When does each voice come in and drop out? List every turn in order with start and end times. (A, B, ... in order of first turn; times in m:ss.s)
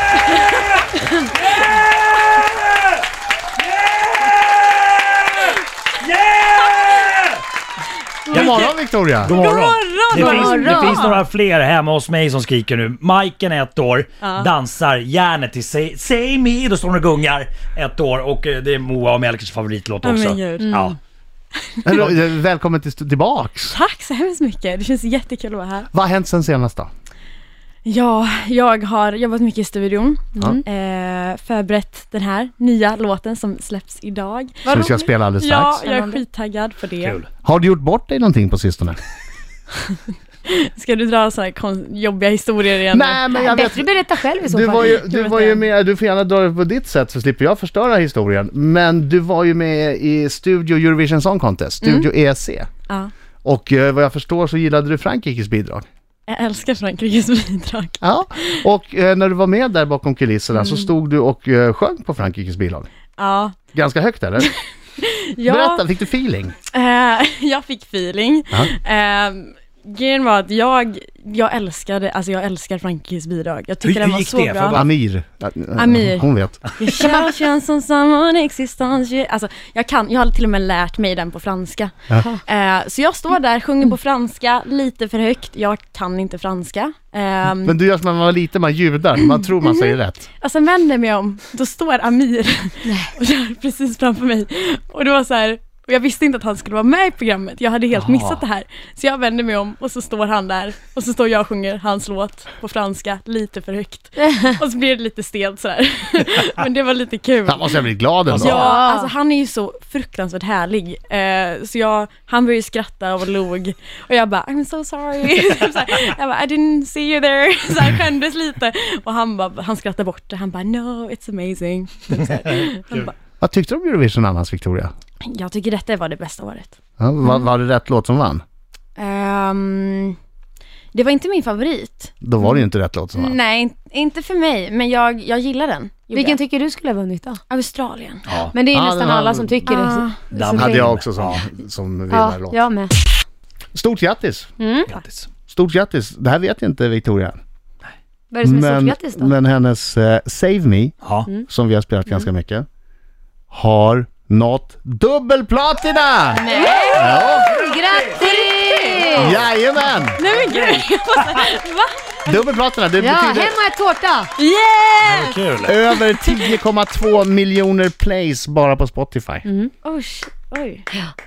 0:01.4-0:01.7 A
0:03.6-0:07.4 A
0:08.3-0:11.2 B
0:08.3-0:21.0 A
0:08.3-0:09.3 C
0:10.1-0:11.1 D
0:14.2-0:14.5 B
0:20.0-0:20.9 B
0:20.6-0:20.9 D
0:21.6-0:22.0 B
0:21.8-0:23.8 C
0:23.7-0:25.9 B
0:25.9-0:26.9 C
0:27.8-0:37.2 B
0:30.3-0:30.6 D
0:34.6-0:35.0 D
0:34.7-0:35.8 C
0:35.8-0:36.2 D
0:37.0-0:37.3 A
0:37.4-0:39.0 C
0:39.9-0:43.7 B
0:42.9-0:52.7 C
0:43.4-0:45.0 D
0:45.0-0:45.6 B
0:51.8-0:52.1 B
0:53.4-0:55.8 C
0:56.3-0:58.6 B
0:58.0-1:02.9 C
1:00.6-1:00.8 B
1:03.2-1:03.5 B
1:03.7-1:04.5 C
1:04.4-1:05.8 B
1:05.4-1:06.5 C
1:06.7-1:14.8 B
1:13.8-1:14.9 A
1:14.7-1:16.6 C
1:15.8-1:21.9 B
1:22.1-1:22.4 D
1:22.4-1:27.8 B
1:27.6-1:30.3 C
1:29.6-2:03.1 B
1:32.8-1:33.1 D
1:38.0-1:38.4 A
1:47.5-1:48.7 C
1:48.3-1:48.6 A
1:48.4-1:49.1 D
2:03.4-2:04.9 C
2:05.2-2:06.7 B
2:07.0-2:08.4 C
2:09.0-2:10.2 B
2:10.9-2:16.4 B
2:12.2-2:13.4 C
2:16.1-2:17.4 D
2:17.5-2:18.2 B
2:18.3-2:18.5 A
2:18.5-2:20.9 D
2:18.7-2:19.6 C
2:19.6-2:20.2 B
2:20.3-2:21.4 A
2:20.5-2:22.6 C
2:22.1-2:22.9 D
2:23.7-2:24.5 C
2:24.6-2:24.9 D
2:24.9-2:25.3 A
2:25.5-2:27.4 C
2:28.3-2:29.3 D
2:28.4-2:30.9 C
2:31.0-2:31.3 A
2:31.5-2:32.6 C
2:33.5-2:37.5 C
2:36.3-2:37.2 B
2:36.5-2:39.4 D
2:37.4-2:38.2 A
2:38.1-2:39.4 B
2:39.1-2:40.2 C
2:40.1-2:42.5 B
2:40.2-2:41.4 A
2:42.2-2:43.6 C
2:43.0-2:44.3 D
2:44.4-2:46.5 B
2:45.0-2:45.8 A
2:45.6-2:49.4 C
2:49.4-2:49.7 D
2:49.8-2:50.9 B